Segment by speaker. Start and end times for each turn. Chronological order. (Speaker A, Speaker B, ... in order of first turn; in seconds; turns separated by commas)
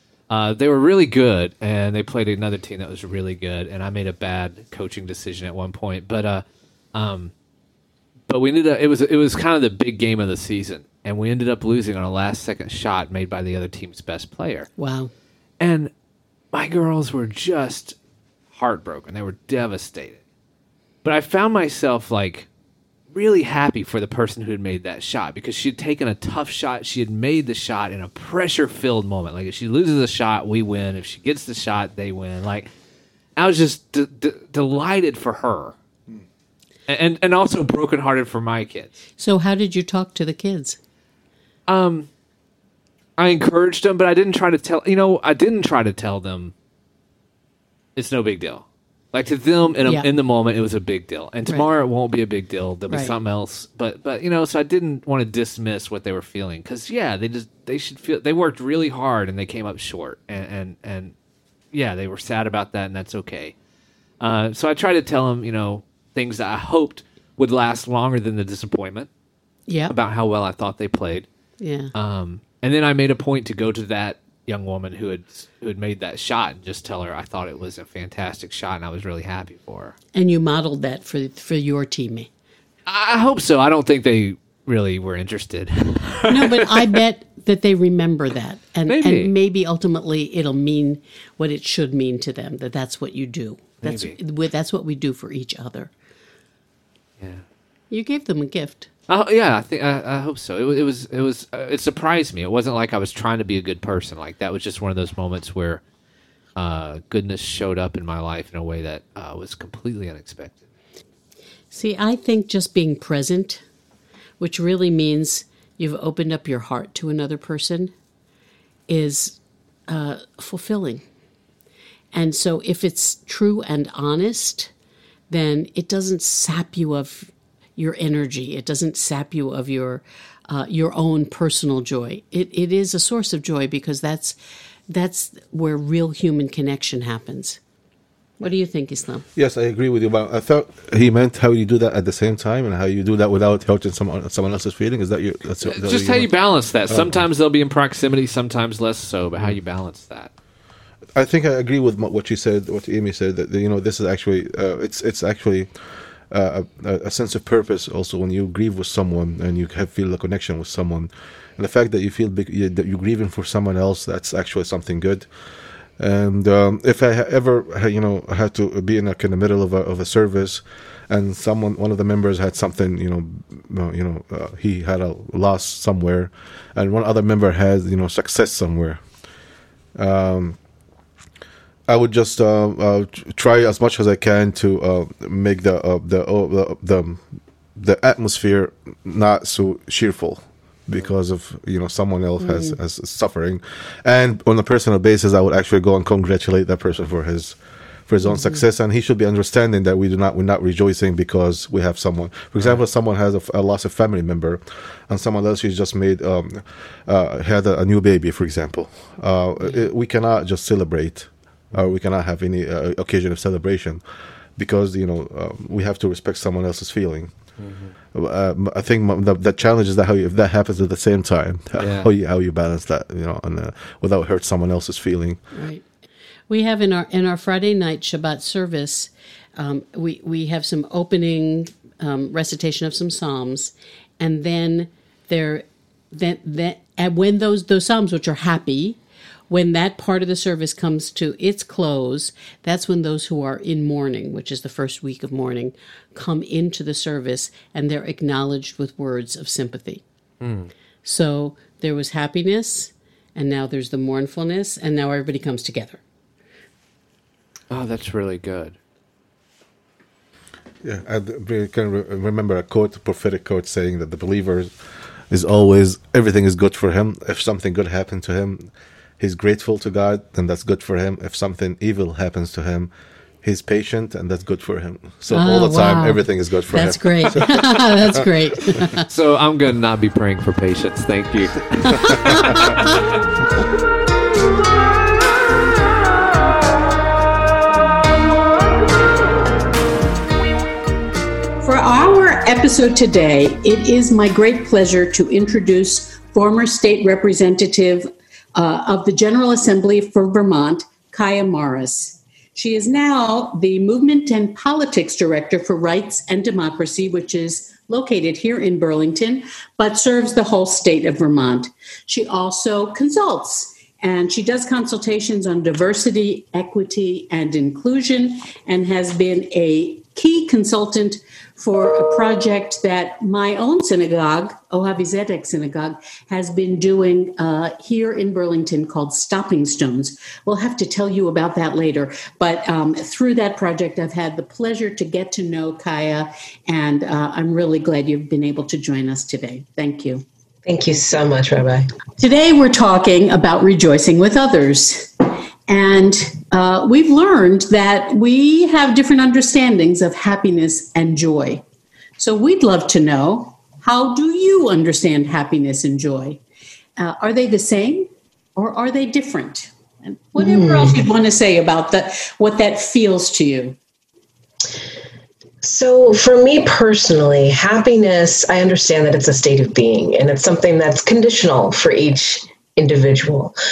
Speaker A: 0.3-7.3, Speaker A: 8.3-14.7, Speaker B: 14.8-15.1, Speaker A: 15.6-15.9, Speaker A: 16.5-17.9, Speaker A: 18.5-20.2, Speaker A: 21.0-22.5, Speaker A: 23.1-32.7, Speaker A: 33.4-35.7, Speaker A: 36.9-38.9, Speaker B: 39.2-40.8, Speaker A: 41.7-42.1, Speaker A: 43.2-46.5, Speaker A: 48.0-61.1, Speaker B: 52.9-53.1, Speaker A: 61.7-63.5, Speaker A: 64.2-69.1, Speaker B: 69.7-69.9, Speaker A: 69.9-71.3, Speaker B: 71.6-71.9, Speaker A: 71.9-79.9, Speaker B: 80.1-82.3, Speaker A: 82.8-86.8, Speaker B: 86.3-95.9, Speaker A: 88.9-89.3, Speaker A: 93.8-94.2, Speaker B: 97.9-98.9, Speaker A: 99.1-105.8, Speaker A: 106.5-110.6, Speaker B: 111.7-113.6, Speaker B: 114.4-117.9, Speaker B: 118.9-119.4, Speaker B: 119.9-121.0, Speaker B: 122.1-124.7, Speaker B: 125.3-134.4, Speaker B: 134.9-137.6, Speaker B: 138.4-139.2, Speaker C: 139.3-146.3, Speaker A: 145.6-150.3, Speaker C: 146.9-147.2, Speaker C: 151.1-155.7, Speaker C: 156.3-165.3, Speaker C: 166.0-179.0, Speaker C: 179.9-180.6, Speaker C: 181.9-187.2, Speaker C: 187.8-197.6, Speaker B: 192.4-192.8, Speaker C: 198.1-214.0, Speaker B: 198.2-198.6, Speaker C: 214.6-217.3, Speaker A: 217.6-217.9, Speaker C: 218.1-225.4, Speaker A: 221.8-222.1, Speaker B: 225.5-225.8, Speaker B: 226.5-239.0, Speaker B: 239.5-250.0, Speaker A: 250.4-250.7, Speaker B: 251.0-256.0, Speaker A: 257.7-258.8, Speaker C: 260.8-264.7, Speaker C: 265.3-272.9, Speaker C: 273.4-278.1, Speaker B: 275.3-279.1, Speaker A: 279.1-283.1, Speaker B: 291.6-340.2, Speaker D: 340.6-341.9, Speaker B: 342.2-351.6, Speaker B: 352.2-356.4, Speaker B: 357.0-363.8, Speaker D: 360.4-360.9, Speaker D: 365.6-373.5